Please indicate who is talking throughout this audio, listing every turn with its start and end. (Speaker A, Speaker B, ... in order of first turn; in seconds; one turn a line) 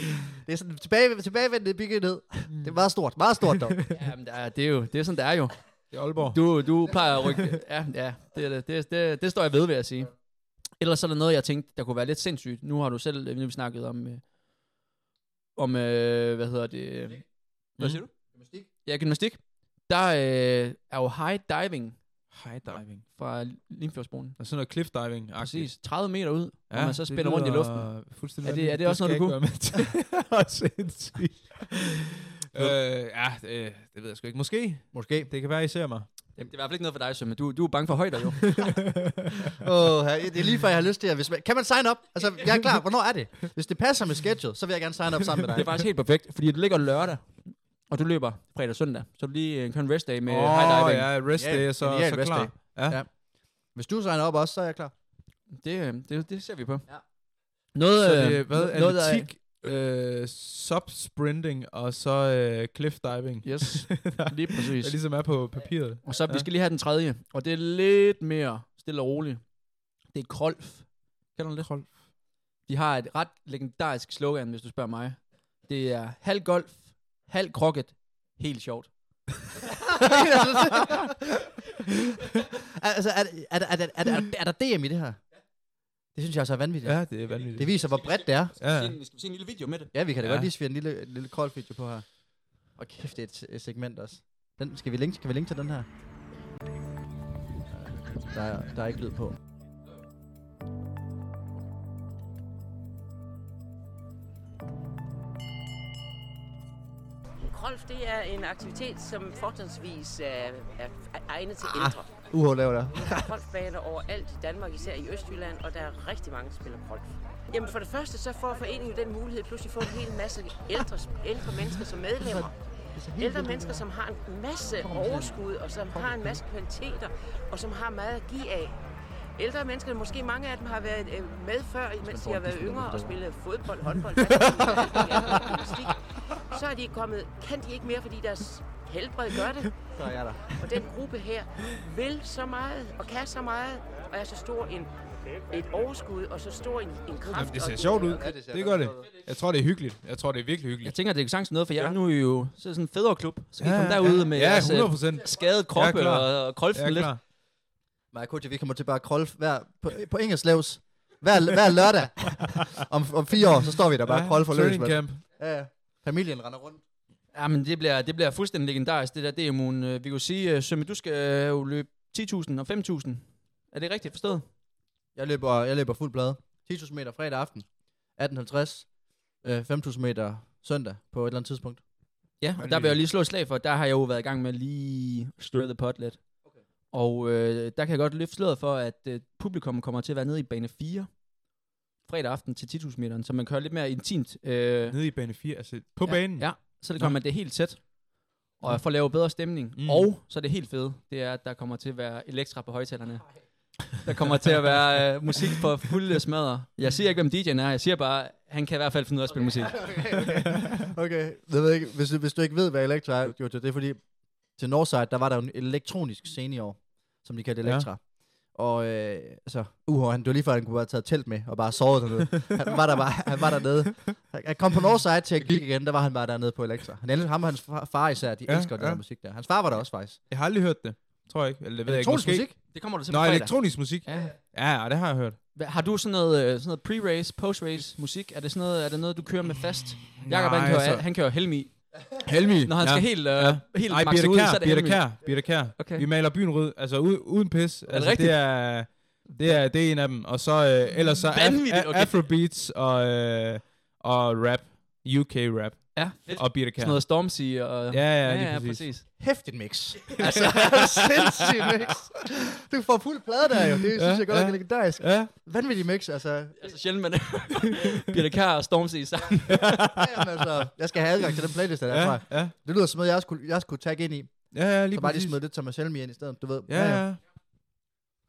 Speaker A: 0.3-3.8
Speaker B: 2.5-2.8
Speaker C: 3.9-14.3
Speaker B: 5.9-6.7
Speaker C: 15.6-24.4
Speaker B: 17.8-18.0
Speaker A: 18.3-18.7
Speaker B: 22.3-23.1
Speaker B: 24.4-25.9
Speaker C: 25.4-29.8
Speaker B: 26.7-31.9
Speaker B: 32.5-36.3
Speaker A: 34.9-35.3
Speaker C: 36.4-38.7
Speaker A: 39.6-45.8
Speaker C: 45.5-51.1
Speaker B: 50.3-53.0
Speaker A: 51.4-54.9
Speaker C: 55.5-59.3
Speaker B: 57.9-66.5
Speaker C: 63.4-65.0
Speaker C: 66.0-72.0
Speaker B: 71.6-71.9
Speaker C: 72.7-79.3
Speaker A: 80.0-81.1
Speaker A: 82.8-85.5
Speaker A: 86.1-88.5
Speaker B: 86.8-87.7
Speaker C: 87.8-89.9
Speaker B: 88.6-89.0
Speaker A: 89.9-95.9
Speaker B: 90.2-90.5
Speaker A: 97.7-99.4
Speaker D: 107.4-112.4
Speaker A: 111.6-113.3
Speaker D: 113.1-128.8
Speaker A: 122.2-123.8
Speaker A: 124.8-126.4
Speaker D: 129.3-139.8
Speaker A: 132.0-133.2
Speaker A: 134.7-135.6
Speaker A: 139.9-140.8
Speaker D: 140.6-148.4
Speaker B: 147.3-151.0
Speaker A: 147.9-149.1
Speaker C: 150.8-157.2
Speaker B: 153.6-157.2
Speaker A: 158.1-166.8
Speaker B: 164.1-165.2
Speaker C: 167.3-174.5
Speaker A: 175.1-181.8
Speaker C: 182.4-186.2
Speaker B: 182.6-183.0
Speaker C: 186.9-191.3
Speaker C: 192.1-195.3
Speaker B: 194.9-197.2
Speaker C: 196.0-210.1
Speaker B: 199.8-200.1
Speaker A: 209.5-230.2
Speaker B: 217.6-217.9
Speaker B: 228.5-229.1
Speaker B: 230.3-235.4
Speaker A: 231.9-232.6
Speaker C: 232.7-234.3
Speaker C: 235.5-246.1
Speaker B: 240.1-241.1
Speaker B: 242.2-258.9
Speaker C: 247.9-249.7
Speaker C: 251.3-252.2
Speaker C: 255.9-259.1
Speaker A: 259.2-266.8
Speaker B: 264.0-265.3
Speaker C: 266.6-269.7
Speaker A: 269.5-277.2
Speaker B: 269.5-270.1
Speaker B: 271.9-272.5
Speaker B: 274.5-275.4
Speaker B: 276.7-277.2